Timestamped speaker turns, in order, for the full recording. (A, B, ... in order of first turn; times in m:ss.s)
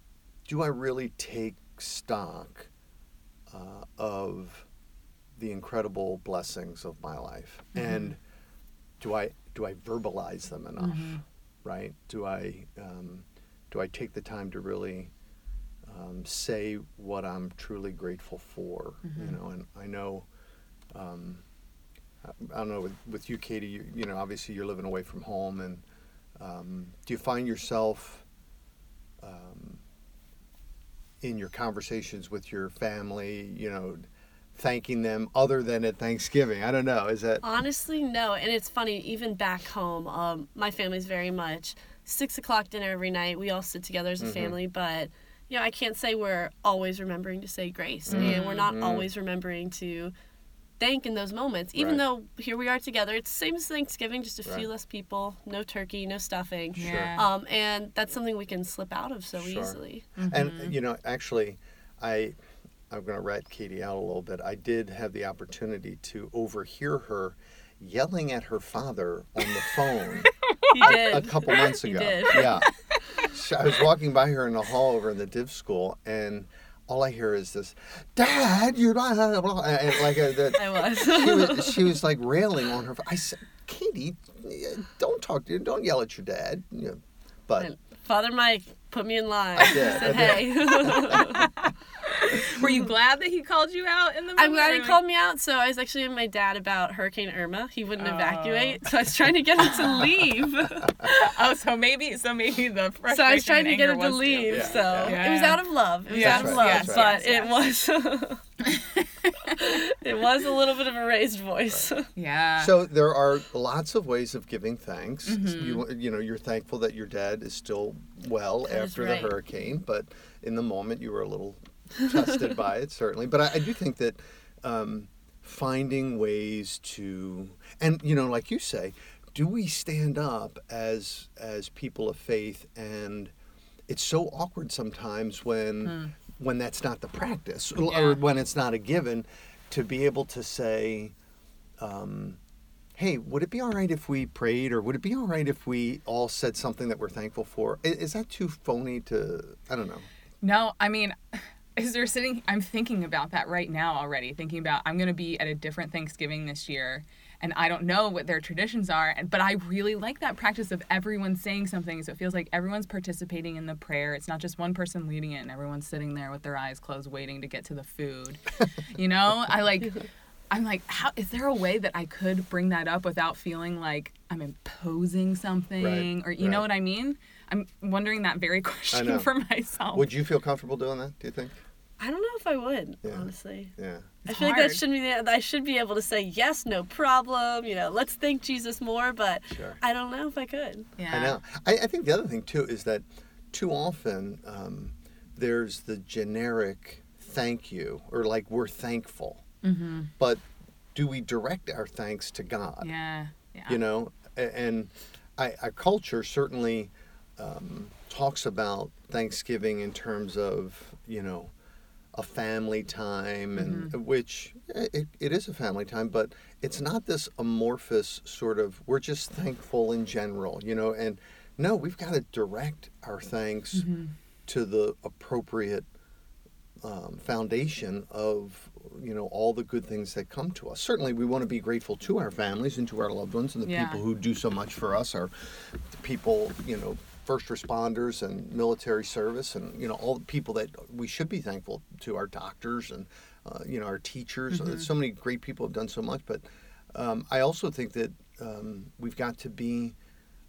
0:00.4-0:02.7 A
0:03.5-0:04.7 A
0:05.4-0:08.2 A
0:07.7-0:08.0 B
0:09.0-0:15.1 A
0:10.8-0:11.2 B
0:15.8-0:20.3 A
0:19.0-0:19.4 B
0:20.9-0:21.4 A
0:22.2-0:25.8 A
0:26.4-0:28.2 A
0:29.2-0:29.8 A
0:31.2-0:37.4 A
0:37.4-0:50.1 C
0:44.2-0:44.6 A
0:48.1-0:49.1 A
0:48.1-0:48.7 B
0:50.8-1:00.1 C
0:51.8-0:52.0 A
0:56.8-0:57.2 B
0:56.8-0:57.1 A
0:59.4-1:02.4 A
1:00.2-1:00.7 B
1:02.9-1:12.7 A
1:10.5-1:11.0 B
1:10.7-1:12.6 C
1:13.2-1:27.7 A
1:20.5-1:22.0 C
1:27.6-1:31.4 C
1:29.6-1:31.4 A
1:32.0-1:35.0 B
1:34.4-1:41.2 C
1:38.0-1:38.8 B
1:41.0-1:47.6 B
1:43.1-1:48.4 C
1:44.5-1:45.2 A
1:46.2-1:47.2 A
1:48.6-1:49.6 B
1:49.4-1:52.1 C
1:52.2-1:52.8 B
1:52.6-2:13.3 A
1:55.2-1:55.8 B
1:58.6-1:59.3 C
2:13.9-2:21.1 A
2:15.8-2:16.1 B
2:17.9-2:18.2 B
2:21.8-2:22.4 A
2:23.0-2:30.0 A
2:30.4-3:00.1 B
2:55.8-2:56.6 A
2:58.9-2:59.3 A
2:59.9-3:01.6 A
3:02.0-3:03.7 C
3:03.0-3:04.1 A
3:04.2-3:04.8 B
3:04.3-3:10.9 C
3:09.5-3:09.8 A
3:11.0-3:11.4 B
3:11.1-3:19.4 A
3:19.6-3:20.1 B
3:20.2-3:20.4 A
3:20.9-3:22.9 A
3:22.8-3:23.8 B
3:23.7-3:31.5 A
3:32.1-3:43.9 A
3:33.5-3:33.9 B
3:43.7-3:44.1 B
3:44.4-3:45.9 A
3:46.8-4:10.0 A
3:53.6-3:54.0 B
4:04.5-4:04.8 B